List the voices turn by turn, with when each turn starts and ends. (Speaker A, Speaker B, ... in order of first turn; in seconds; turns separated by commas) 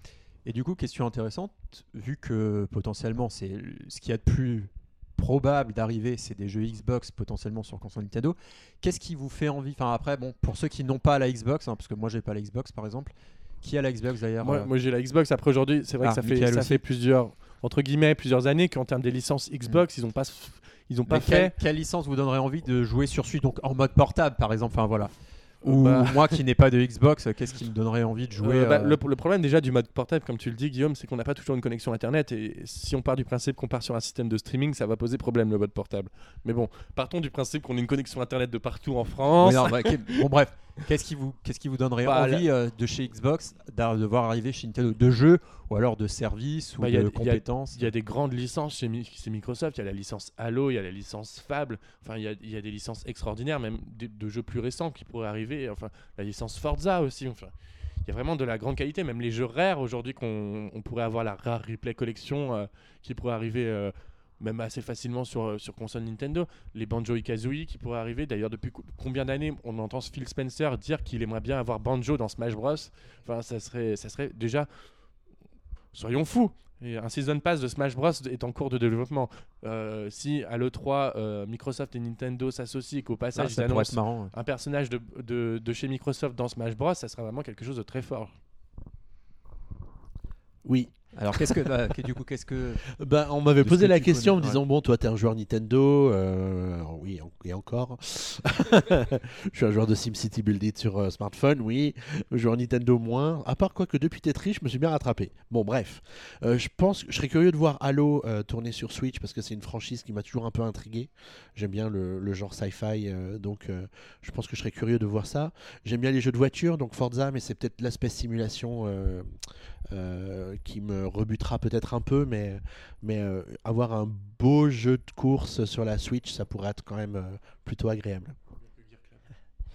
Speaker A: 0.4-14.7, Speaker B: 14.4-21.5, Speaker A: 16.0-16.8, Speaker A: 21.1-29.0, Speaker B: 25.6-26.4, Speaker B: 28.4-40.2, Speaker A: 39.4-47.9, Speaker B: 42.0-42.4, Speaker B: 46.8-57.5, Speaker B: 58.0-74.7, Speaker B: 75.9-88.3, Speaker A: 83.3-84.3, Speaker C: 90.6-92.0, Speaker A: 91.1-92.8, Speaker C: 93.0-119.3, Speaker A: 93.6-94.6, Speaker C: 119.9-128.3, Speaker B: 128.7-129.2